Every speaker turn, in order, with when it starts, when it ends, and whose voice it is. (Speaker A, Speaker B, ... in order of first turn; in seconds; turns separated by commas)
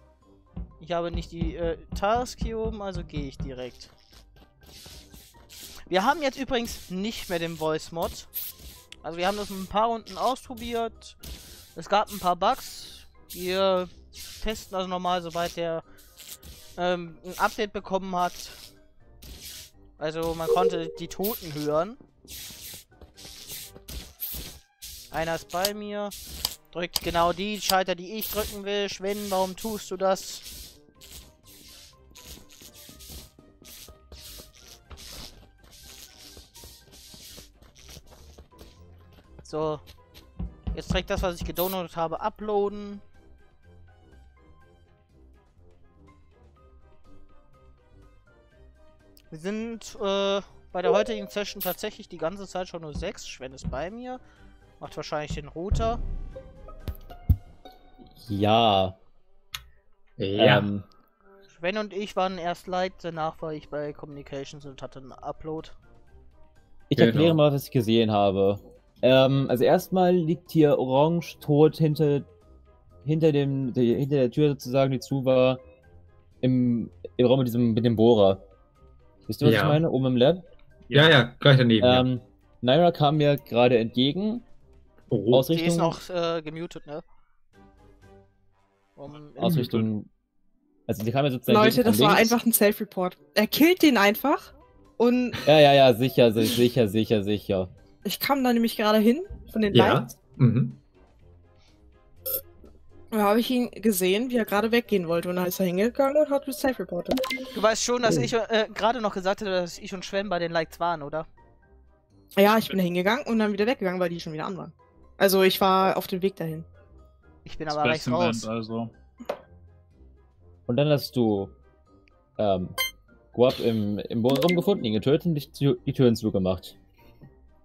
Speaker A: 0.8-3.9, Speaker A: 5.9-8.3, Speaker A: 9.0-11.2, Speaker A: 11.7-13.9, Speaker A: 14.4-15.8, Speaker A: 16.8-18.6, Speaker A: 20.0-22.0, Speaker A: 25.1-26.1, Speaker A: 26.7-30.5, Speaker A: 39.4-39.8, Speaker A: 40.7-43.0, Speaker A: 49.3-54.2, Speaker A: 54.8-56.0, Speaker B: 58.1-59.0, Speaker C: 60.2-60.7, Speaker B: 60.4-60.9, Speaker A: 61.5-65.8, Speaker B: 66.9-72.3, Speaker C: 66.9-67.4, Speaker B: 73.0-75.6, Speaker B: 76.4-78.4, Speaker B: 79.3-80.4, Speaker C: 79.4-79.8, Speaker D: 80.9-81.2, Speaker C: 80.9-82.0, Speaker B: 81.8-84.5, Speaker C: 85.1-85.5, Speaker B: 85.3-86.0, Speaker A: 85.5-87.0, Speaker A: 89.0-89.7, Speaker D: 89.4-89.9, Speaker B: 89.4-90.1, Speaker B: 90.9-92.3, Speaker E: 91.5-95.4, Speaker B: 95.4-97.7, Speaker E: 98.0-100.0, Speaker C: 99.7-100.8, Speaker E: 103.1-107.2, Speaker A: 107.5-111.3, Speaker E: 112.3-116.7, Speaker A: 117.4-118.5, Speaker D: 117.7-118.9, Speaker B: 120.7-121.5, Speaker B: 122.4-122.8, Speaker B: 123.3-126.8